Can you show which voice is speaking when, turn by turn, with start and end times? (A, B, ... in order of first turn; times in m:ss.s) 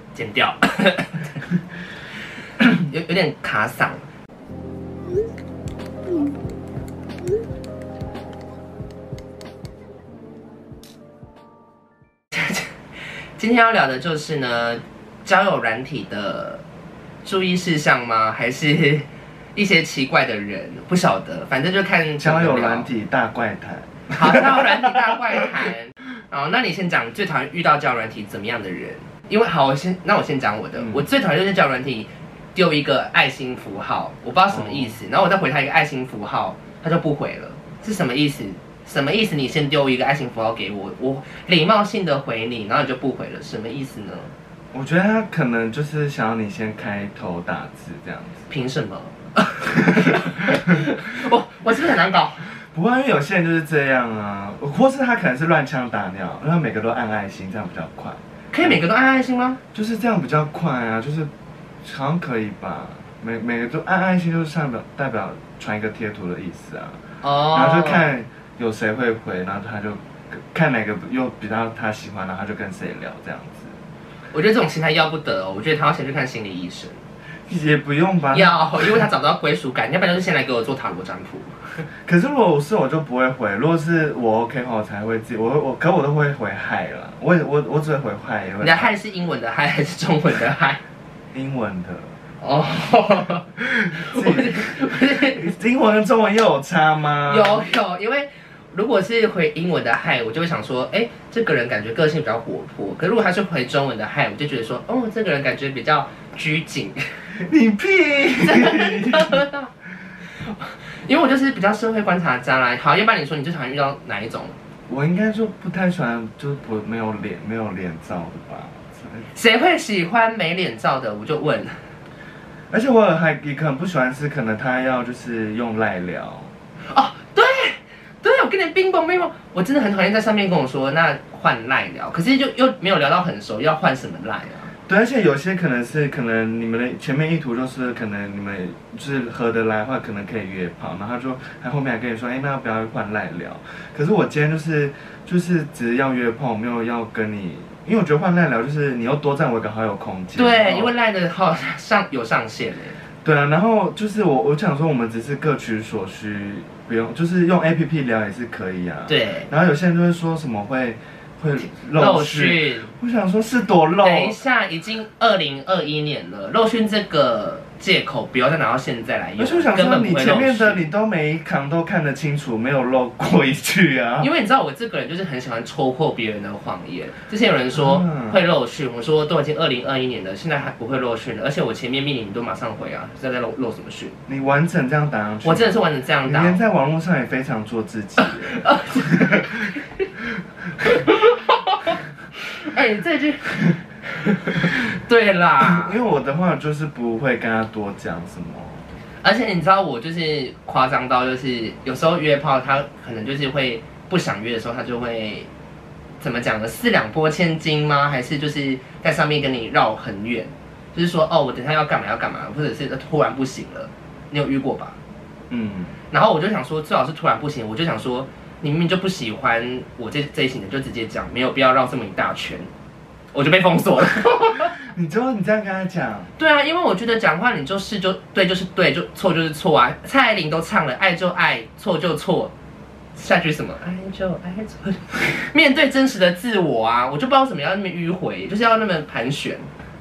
0:00.1-0:01.4 A
0:02.6-0:04.0 A
0:12.3-0:12.7 A
0:13.4-0:16.6 A
0:17.2-0:22.9 A
0:22.2-0:25.1 B
0:24.1-0:44.3 A
0:30.8-0:31.1 B
0:34.5-0:35.0 B
0:44.7-0:48.5 B
0:48.5-0:52.5 A
0:49.8-0:50.2 B
0:52.5-0:58.8 B
0:58.5-0:59.6 A
0:59.7-1:01.3 B
1:01.8-1:13.8 B
1:07.2-1:08.0 A
1:14.3-1:17.0 A
1:17.5-1:19.0 B
1:18.3-1:21.8 A
1:22.0-1:28.9 B
1:28.6-1:30.8 A
1:31.3-1:32.2 B
1:32.4-1:35.5 A
1:33.6-1:37.7 B
1:37.3-1:47.1 A
1:47.3-1:49.5 B
1:48.4-1:49.7 A
1:50.4-1:54.5 A
1:54.9-1:59.3 B
1:59.3-2:01.8 A
2:02.7-2:06.5 B
2:06.9-2:14.7 A
2:14.9-2:30.9 B
2:30.4-2:33.0 A
2:33.2-2:44.4 B
2:39.1-2:39.5 A
2:41.6-2:42.9 A
2:44.0-2:50.8 A
2:49.4-2:54.3 B
2:54.2-3:04.2 A
2:57.7-2:58.4 B
3:04.3-3:09.7 B
3:05.4-3:06.6 A
3:08.2-3:10.1 A
3:10.8-3:16.0 A
3:15.6-3:18.9 B
3:19.2-3:25.5 A
3:26.2-3:35.0 A
3:35.5-3:36.0 B
3:36.1-3:42.7 A
3:43.3-3:44.8 A
3:44.6-3:46.3 B
3:46.4-3:52.5 A
3:53.2-3:59.7 A